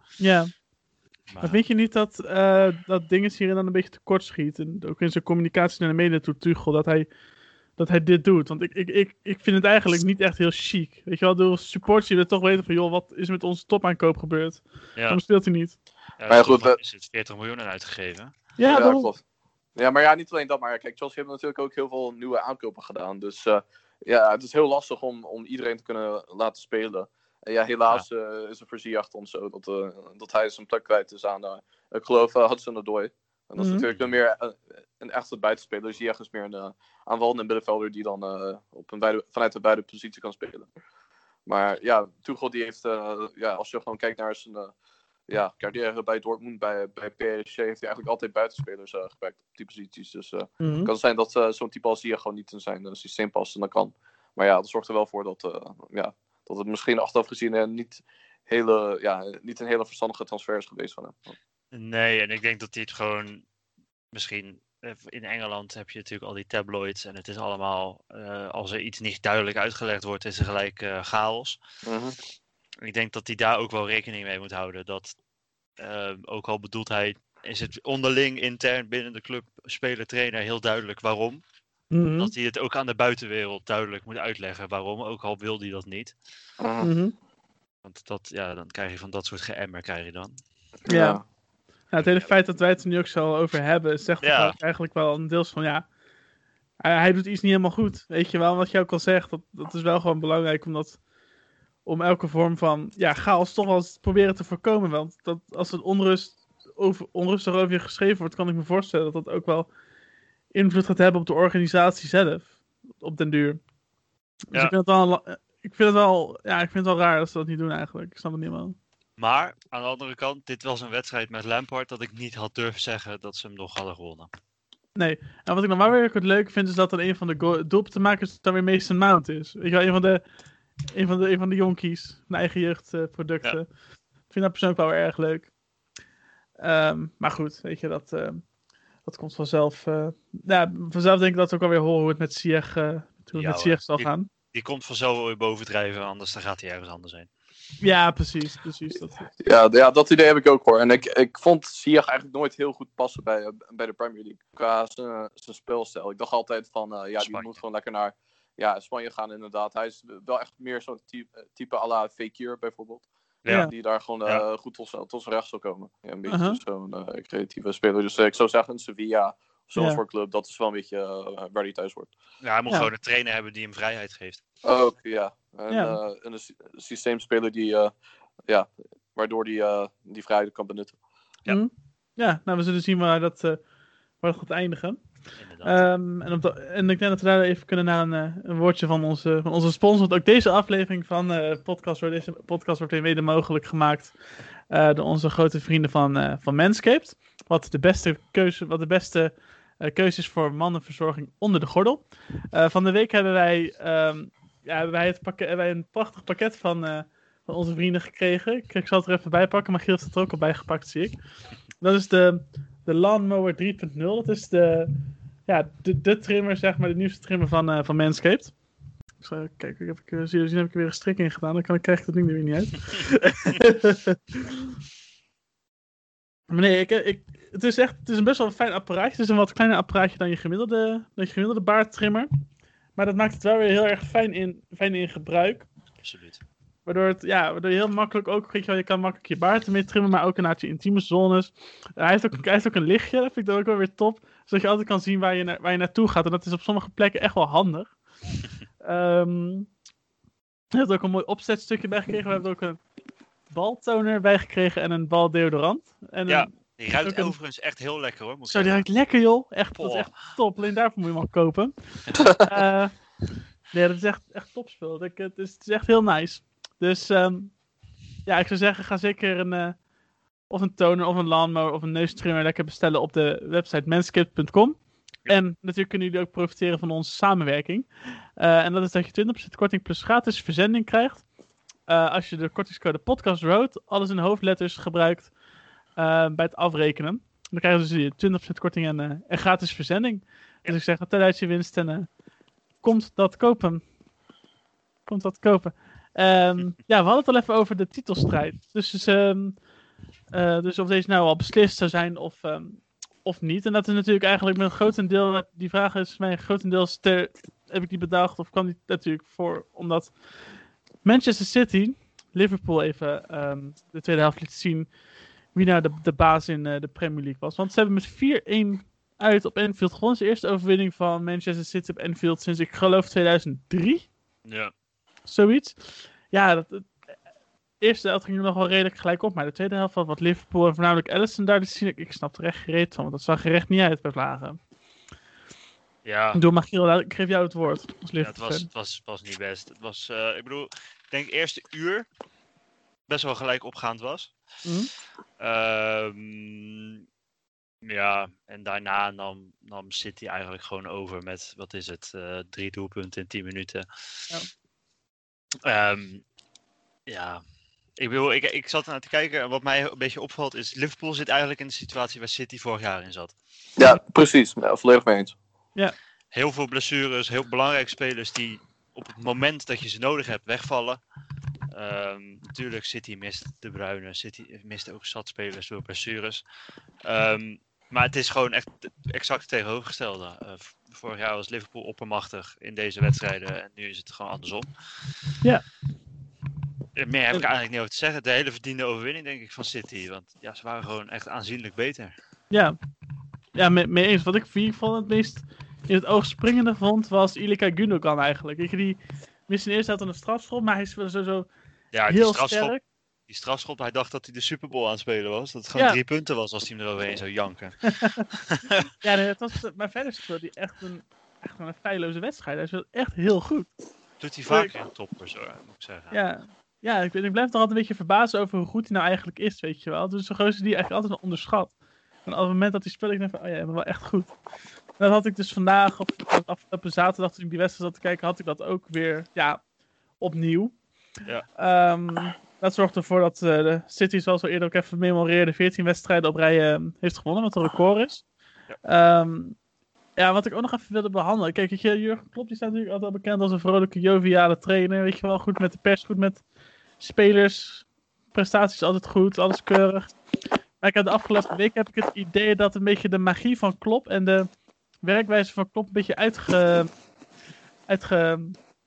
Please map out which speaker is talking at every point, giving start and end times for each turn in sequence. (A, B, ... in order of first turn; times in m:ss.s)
0:00.2-0:00.5 A
0:01.3-0:01.6 B
0:01.4-0:07.1 A
0:07.8-0:15.8 A
0:15.0-0:15.2 B
0:16.2-0:18.3 B
0:16.3-0:16.8 C
0:18.6-0:19.1 A
0:18.7-0:19.2 C
0:19.8-0:40.7 C
0:33.6-0:33.9 A
0:33.8-0:34.1 B
0:41.5-0:44.7 C
0:45.3-1:01.4 C
0:50.6-0:50.9 A
1:01.7-1:03.4 B
1:04.1-1:11.6 B
1:11.8-1:12.2 C
1:12.8-1:15.1 B
1:15.8-1:21.4 B
1:21.9-1:22.3 A
1:22.2-1:26.1 B
1:26.6-1:26.9 C
1:26.8-1:27.1 A
1:27.8-1:30.4 B
1:30.8-1:31.2 C
1:30.9-1:31.2 A
1:31.9-1:35.8 A
1:32.0-1:32.3 B
1:34.2-1:34.6 B
1:36.8-1:41.0 A
1:41.8-1:49.7 A
1:50.5-1:53.6 A
1:54.5-1:58.8 A
1:59.2-2:04.3 B
2:05.0-2:10.2 A
2:10.9-2:13.6 A
2:14.3-2:15.5 A
2:16.6-2:18.4 A
2:19.0-2:24.3 A
2:23.3-2:27.3 B
2:27.8-2:29.3 A
2:29.4-2:43.1 C
2:37.2-2:37.6 B
2:43.4-2:43.7 B
2:43.6-2:52.1 C
2:46.3-2:46.6 A
2:52.4-2:54.4 B
2:54.6-2:57.9 C
2:55.7-2:56.0 A
2:58.5-3:01.0 C
3:01.5-3:03.6 A
3:04.2-3:05.0 A
3:05.4-3:05.7 B
3:05.6-3:14.1 A
3:14.7-3:31.1 A
3:31.8-3:38.5 A
3:39.2-3:44.6 A
3:46.5-3:52.3 A
3:53.0-3:55.7 A
3:56.0-3:56.4 B
3:56.8-4:07.9 A
4:08.8-4:09.7 A
4:10.7-4:12.8 A
4:13.5-4:16.5 A
4:16.3-4:18.9 B
4:17.0-4:17.3 A
4:18.5-4:22.9 A
4:19.8-4:20.4 B
4:23.7-4:27.5 A
4:28.2-4:29.8 A
4:30.5-4:41.2 A
4:41.9-4:45.3 A
4:46.0-4:52.1 A
4:52.8-4:53.8 A
4:55.1-4:59.6 A
5:00.3-5:10.1 A
5:11.0-5:14.9 A
5:15.5-5:24.1 A
5:24.4-5:24.7 B
5:25.2-5:26.9 A
5:27.8-5:34.6 A
5:36.0-5:36.4 B
5:36.3-5:38.7 A
5:38.2-5:42.1 B
5:43.1-5:44.3 B
5:44.6-5:44.9 A
5:45.4-5:47.0 B
5:47.8-5:53.8 B
5:55.6-5:56.2 B
5:57.1-5:57.4 B
5:58.0-6:03.3 B
6:03.8-6:05.3 C
6:06.3-6:11.0 B
6:11.7-6:16.4 B
6:17.0-6:24.7 B
6:27.0-6:32.1 B
6:32.5-6:32.8 A
6:33.5-6:41.5 A
6:41.9-6:42.8 B
6:42.1-6:42.8 A
6:43.3-6:48.8 B
6:47.9-6:48.2 A
6:49.0-6:53.7 A
6:54.2-6:56.2 B
6:56.1-7:01.7 A
7:02.2-7:04.3 A
7:05.0-7:09.6 A
7:10.2-7:10.7 A
7:11.6-7:18.2 A
7:18.8-7:19.6 A
7:20.2-7:26.4 A
7:27.0-7:30.1 A
7:30.8-7:34.5 A
7:35.0-7:36.9 A
7:37.9-7:38.6 A